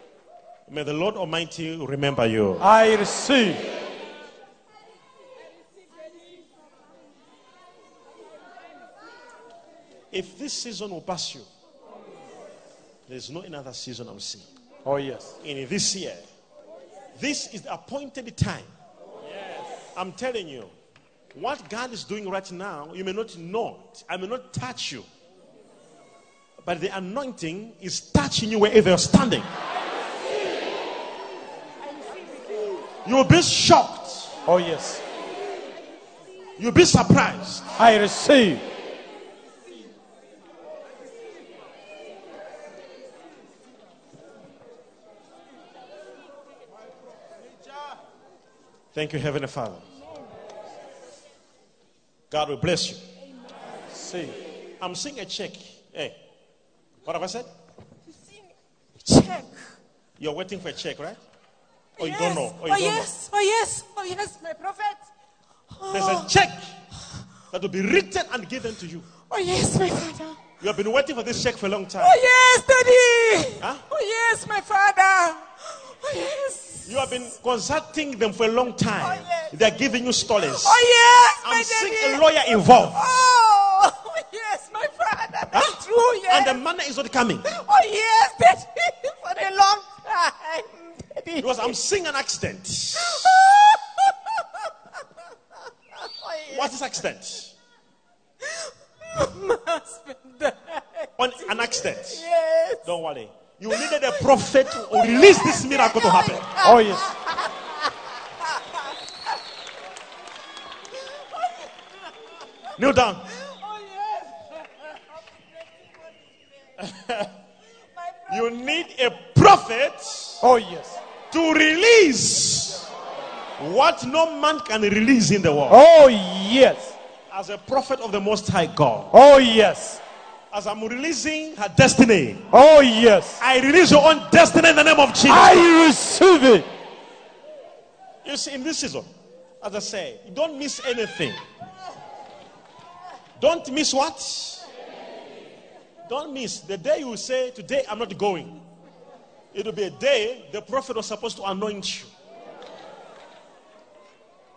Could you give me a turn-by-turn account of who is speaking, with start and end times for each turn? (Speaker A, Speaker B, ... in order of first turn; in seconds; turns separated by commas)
Speaker A: 0.7-2.7, Speaker B: 2.6-3.6, Speaker A: 10.1-11.5, Speaker A: 13.1-14.5, Speaker B: 14.8-15.3, Speaker A: 15.4-16.2, Speaker A: 17.2-18.7, Speaker A: 19.9-20.7, Speaker A: 21.3-25.1, Speaker A: 26.6-29.5, Speaker A: 33.0-34.3, Speaker B: 34.5-35.0, Speaker A: 36.6-37.7, Speaker B: 37.8-38.6, Speaker A: 48.9-49.8, Speaker A: 52.3-53.0, Speaker B: 53.9-54.4, Speaker A: 54.8-56.2, Speaker A: 57.0-57.5, Speaker C: 59.1-59.6, Speaker A: 60.2-61.2, Speaker A: 62.0-63.1, Speaker C: 62.0-65.0, Speaker C: 65.8-66.3, Speaker A: 65.9-66.7, Speaker A: 67.5-69.1, Speaker C: 69.3-70.4, Speaker A: 70.6-72.2, Speaker C: 72.0-76.9, Speaker A: 76.9-80.8, Speaker C: 79.0-79.5, Speaker C: 80.4-86.6, Speaker A: 81.4-83.1, Speaker A: 85.5-85.8, Speaker A: 86.3-87.5, Speaker C: 87.5-91.7, Speaker A: 91.4-93.3, Speaker C: 93.1-93.8, Speaker C: 96.2-96.6, Speaker A: 96.5-97.5, Speaker C: 99.1-102.8, Speaker A: 101.2-102.2, Speaker A: 102.8-106.5, Speaker C: 105.0-107.2, Speaker B: 106.6-107.1, Speaker A: 112.8-113.2, Speaker C: 113.5-114.2, Speaker A: 116.8-117.3, Speaker A: 118.3-120.4, Speaker B: 120.4-121.0, Speaker A: 121.3-122.8, Speaker A: 123.6-125.8, Speaker B: 125.7-127.0, Speaker A: 127.3-129.1, Speaker B: 129.1-130.0, Speaker A: 130.5-132.5, Speaker B: 132.5-133.4, Speaker A: 133.4-135.7, Speaker B: 135.3-136.7, Speaker A: 138.2-139.1, Speaker A: 139.6-141.4, Speaker A: 143.4-144.7, Speaker A: 146.1-148.6, Speaker A: 149.5-152.1